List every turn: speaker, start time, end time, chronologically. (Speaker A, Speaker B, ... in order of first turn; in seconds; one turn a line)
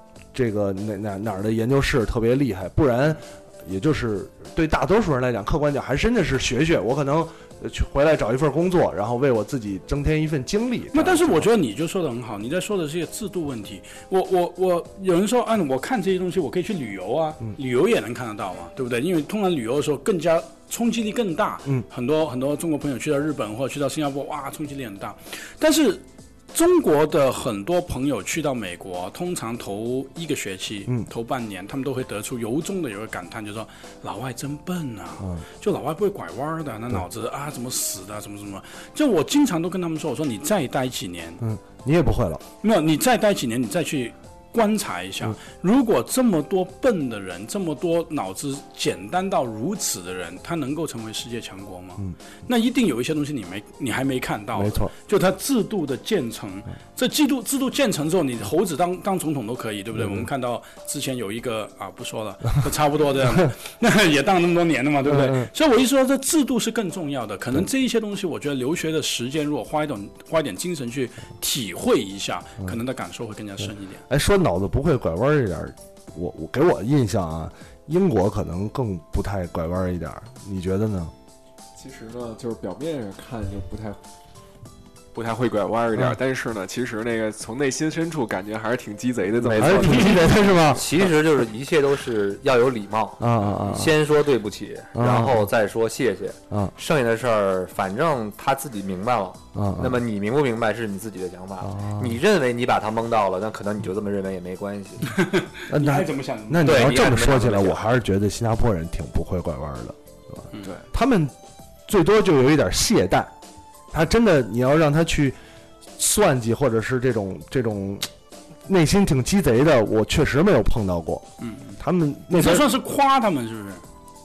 Speaker A: 0.3-11.5
Speaker B: 10.9-41.4
Speaker A: 35.2-35.4
Speaker A: 41.4-42.4
Speaker B: 42.6-74.0
Speaker A: 54.5-54.9
Speaker A: 59.9-60.3
Speaker A: 65.0-65.5
Speaker A: 74.1-81.1
Speaker C: 81.8-84.0
Speaker C: 85.1-90.4
Speaker A: 89.4-91.0
Speaker D: 90.7-105.2
Speaker A: 93.2-94.0
Speaker A: 94.9-95.5
Speaker A: 99.5-100.0
Speaker A: 101.6-102.2
Speaker B: 105.1-107.1
Speaker A: 105.7-111.3
Speaker D: 106.6-107.8
Speaker A: 111.9-113.3
Speaker A: 113.9-115.3
Speaker A: 116.0-118.1
Speaker A: 118.7-121.3
Speaker B: 121.4-121.8
Speaker A: 121.8-122.7
Speaker B: 122.3-123.8